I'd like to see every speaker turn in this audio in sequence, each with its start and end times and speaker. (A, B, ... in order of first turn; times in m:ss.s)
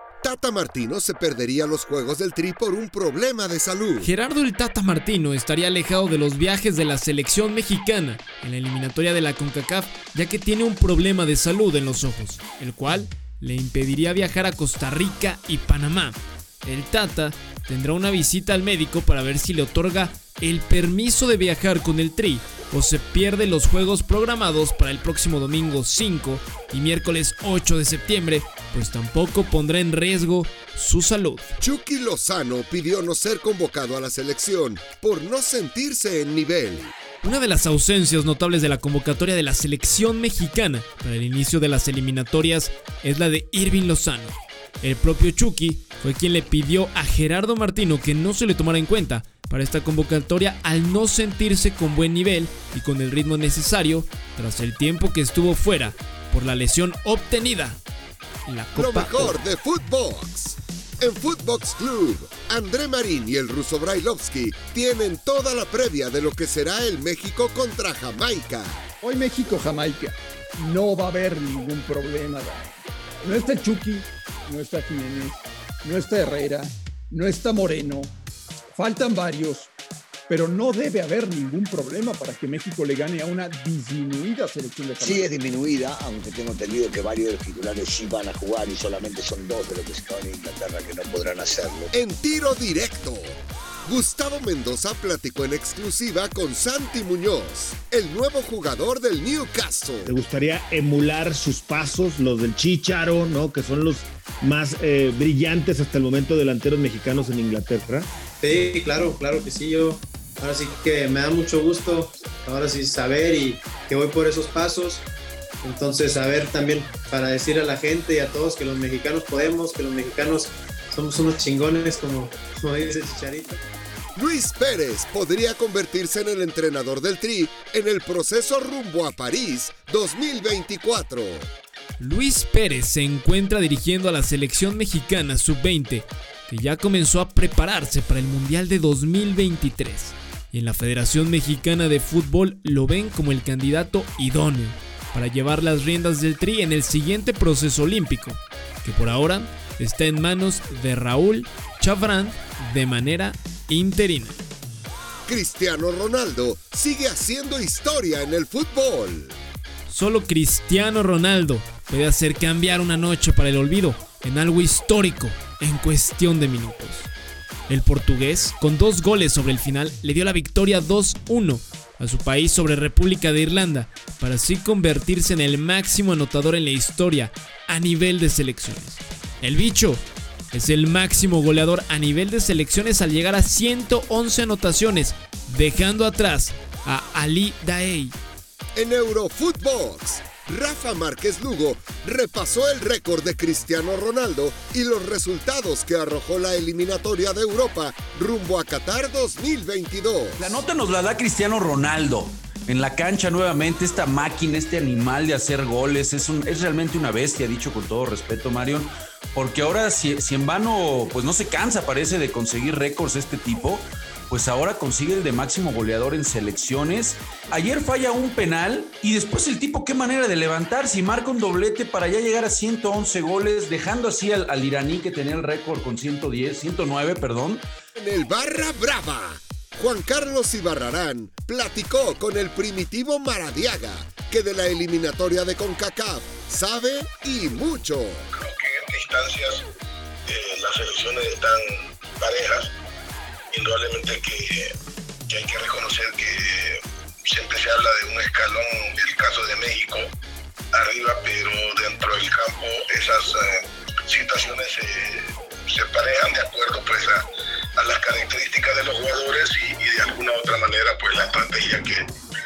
0:00.2-0:04.1 A
0:04.0-0:31.6 B
0:31.6-0:36.9 A
0:37.2-0:57.8 B
0:58.5-0:59.4 B
0:58.7-1:08.8 A
1:09.0-1:18.1 C
1:18.7-1:19.7 C
1:20.3-1:25.3 C
1:25.0-1:31.9 D
1:31.9-1:40.2 A
1:40.0-1:48.1 E
1:48.4-1:55.1 F
1:55.6-2:03.6 F
2:04.2-2:11.5 A
2:12.0-2:34.4 B
2:35.3-2:39.4 A
2:39.9-2:47.1 B
2:47.7-3:08.2 B
3:08.8-3:20.6 A
3:20.4-3:47.6 G
3:48.0-3:58.3 A
3:58.4-3:59.6 H
4:00.3-4:01.6 H
4:02.2-4:02.7 H
4:03.5-4:04.7 H
4:05.3-4:10.0 H
4:10.7-4:17.2 H
4:17.8-4:22.0 H